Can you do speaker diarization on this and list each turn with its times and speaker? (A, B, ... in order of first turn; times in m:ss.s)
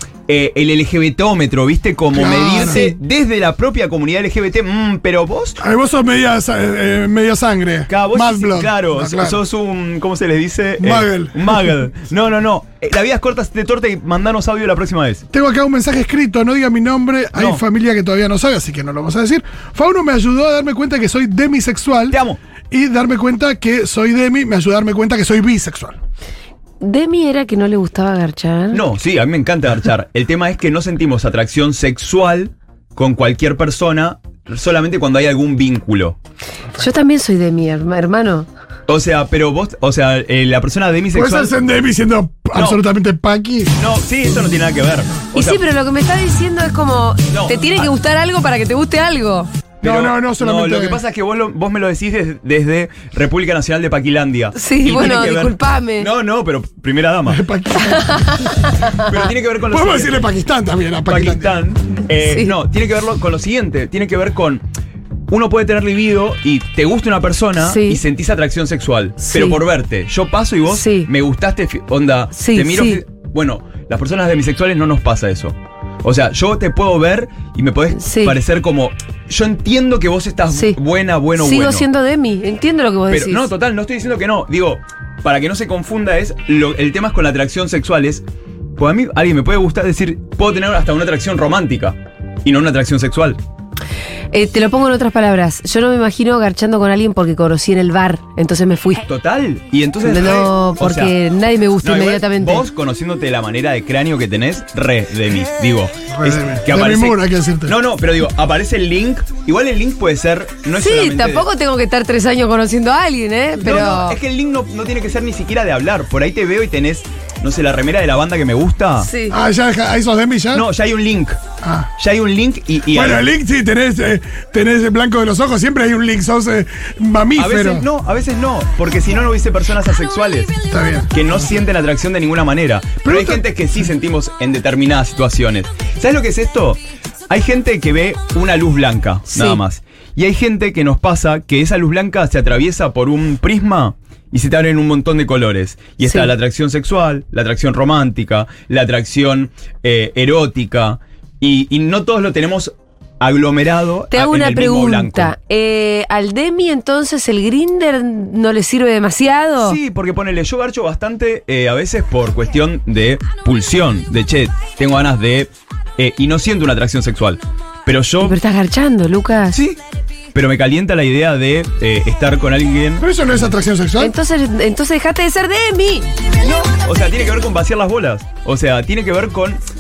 0:00.3-0:05.6 A
0:02.1-0:03.0 B
0:05.6-0:09.4 B
0:07.9-0:15.2 A
0:10.8-0:11.6 B
0:15.3-0:22.2 B
0:17.4-0:17.6 A
0:22.1-0:22.4 A
0:22.7-0:26.0 B
0:26.8-0:28.8 C
0:28.7-0:36.2 A
0:36.8-0:38.5 C
0:38.9-0:41.5 A
0:41.1-0:43.7 B
0:42.5-0:42.8 A
0:43.8-0:45.6 A
0:45.4-0:49.5 C
0:47.3-0:47.9 A
0:49.8-0:57.4 A
0:49.8-0:51.0 B
0:54.6-0:56.1 C
0:57.3-0:58.6 B
0:57.8-0:58.5 C
0:58.9-1:00.2 A
0:59.7-1:01.5 B
1:01.1-1:04.6 A
1:02.1-1:02.6 C
1:05.3-1:21.9 A
1:07.6-1:08.0 C
1:09.2-1:09.6 C
1:10.7-1:11.1 C
1:12.3-1:13.0 C
1:17.9-1:18.4 C
1:20.5-1:20.8 C
1:21.4-1:23.5 C
1:23.1-1:28.2 A
1:28.8-1:33.4 A
1:34.3-1:39.0 C
1:39.1-1:41.2 A
1:40.0-1:42.7 C
1:41.8-1:51.5 A
1:46.1-1:47.7 B
1:50.7-1:54.2 C
1:53.6-1:59.1 A
1:59.0-1:59.4 C
1:59.3-2:00.6 B
2:00.5-2:01.4 A
2:01.6-2:01.9 B
2:02.0-2:03.2 A
2:02.9-2:07.9 B
2:07.4-2:10.5 A
2:10.7-2:11.6 B
2:11.1-2:35.3 A
2:13.0-2:13.9 B
2:19.3-2:19.6 C
2:26.0-2:26.3 C
2:34.1-2:39.8 C
2:39.6-2:48.4 A
2:48.2-2:49.6 C
2:49.5-2:49.8 A
2:50.3-2:53.5 A
2:53.0-2:54.2 B
2:54.0-2:56.1 C
2:56.4-2:59.6 A